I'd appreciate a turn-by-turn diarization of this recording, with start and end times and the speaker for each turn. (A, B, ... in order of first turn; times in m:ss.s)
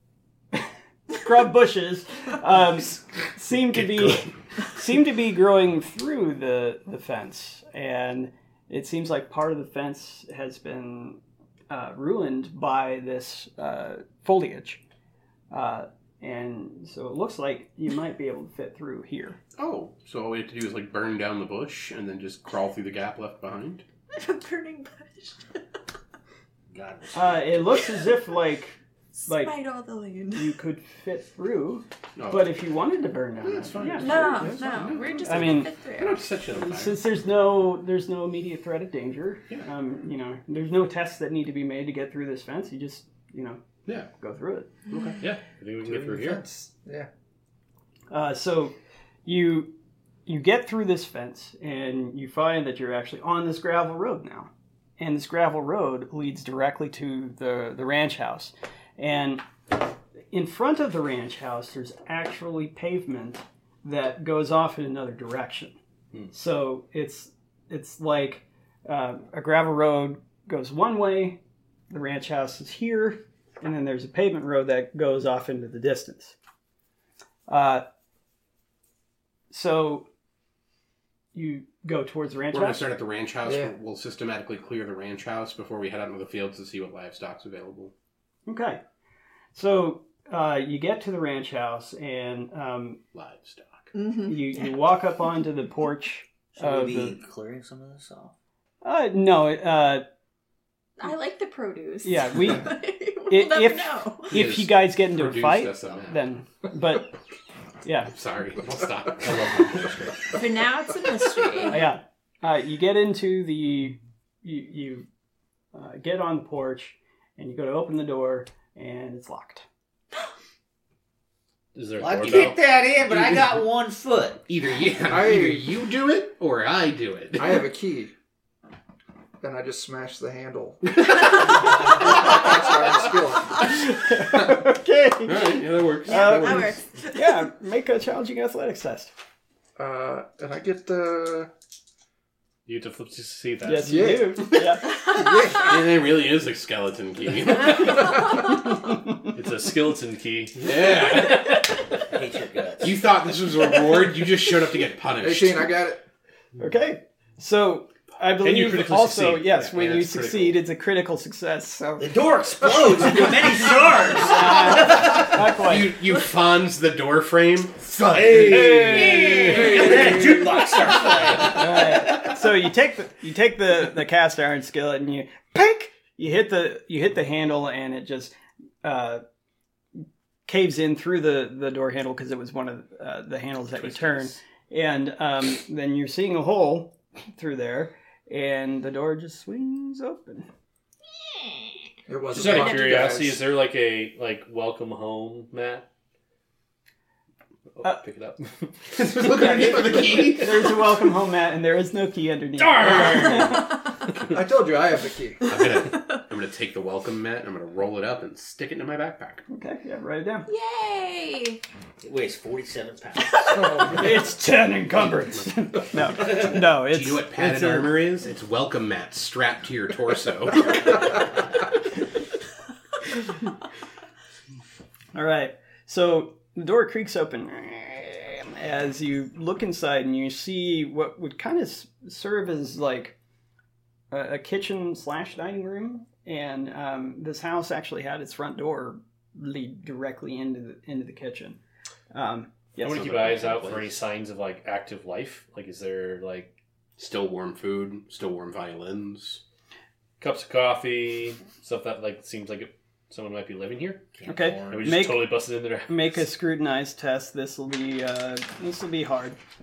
0:00.5-0:14.8 A
0:03.7-0:04.2 B
0:15.5-0:19.4 A
0:19.6-0:23.8 C
0:24.1-0:25.6 D
0:26.7-0:27.9 E
0:27.1-0:28.8 A
0:29.2-0:30.6 D
0:29.3-0:29.6 A
0:30.3-0:34.4 A
0:32.2-0:32.5 C
0:33.6-0:37.0 C
0:33.8-0:34.9 F
0:34.0-0:36.3 D
0:35.2-0:35.7 A
0:36.5-0:43.6 A
0:44.2-0:44.7 A
0:44.9-0:45.2 C
0:45.2-0:46.4 B
0:45.8-0:47.1 F
0:48.1-0:59.4 A
1:00.3-1:05.8 A
1:06.3-1:11.4 A
1:11.9-1:16.3 A
1:17.5-1:17.8 A
1:19.5-1:20.1 A
1:21.3-1:22.9 A
1:22.5-1:27.9 C
1:23.4-1:23.7 F
1:28.5-1:28.8 A
1:29.5-1:33.0 A
1:33.1-1:33.9 C
1:33.9-1:34.7 D
1:34.2-1:37.2 A
1:36.6-1:38.3 E
1:38.8-1:40.0 A
1:41.0-1:44.4 D
1:42.0-1:47.2 A
1:44.3-1:46.2 C
1:47.8-1:48.1 A
1:48.1-1:49.9 C
1:49.2-1:50.4 B
1:50.3-1:51.9 D
1:51.7-1:55.1 A
1:55.7-1:59.6 A
2:01.7-2:02.6 B
2:02.0-2:04.5 E
2:02.2-2:02.6 C
2:04.5-2:07.7 C
2:05.1-2:05.7 F
2:07.3-2:08.1 F
2:09.4-2:13.7 F
2:13.8-2:19.1 A
2:15.2-2:16.7 C
2:16.0-2:17.4 D
2:19.8-2:21.5 F
2:22.6-2:24.1 B
2:23.6-2:24.9 A
2:23.8-2:25.8 F
2:25.4-2:28.4 C
2:29.3-2:31.6 B
2:30.6-2:31.7 C
2:32.0-2:33.2 E
2:32.8-2:35.7 C
2:35.2-2:36.0 F
2:36.6-2:42.1 A
2:38.4-2:39.5 B
2:39.4-2:40.6 C
2:42.0-2:45.3 E
2:44.1-2:45.9 A
2:44.7-2:50.3 C
2:48.0-2:52.3 E
2:48.4-2:50.1 B
2:51.4-2:59.2 A
3:00.4-3:10.5 A
3:03.8-3:04.3 B
3:12.1-3:13.4 F
3:12.3-3:15.9 B
3:17.7-3:18.7 B
3:18.9-3:20.8 C
3:19.2-3:23.7 A
3:22.6-3:23.7 B
3:22.9-3:23.2 C
3:24.3-3:25.5 F
3:25.4-3:29.4 C
3:25.9-3:26.2 D
3:29.5-3:30.5 A
3:30.5-3:31.6 D
3:32.0-3:34.0 E
3:33.5-3:34.2 F
3:33.9-3:38.0 A
3:35.2-3:41.3 C
3:45.1-3:53.2 A
3:54.1-4:01.6 A
4:02.1-4:03.1 A
4:02.8-4:06.5 B
4:02.8-4:04.0 C
4:07.0-4:09.4 C
4:10.2-4:14.1 B
4:14.1-4:15.0 E
4:14.2-4:19.4 A
4:14.6-4:16.2 B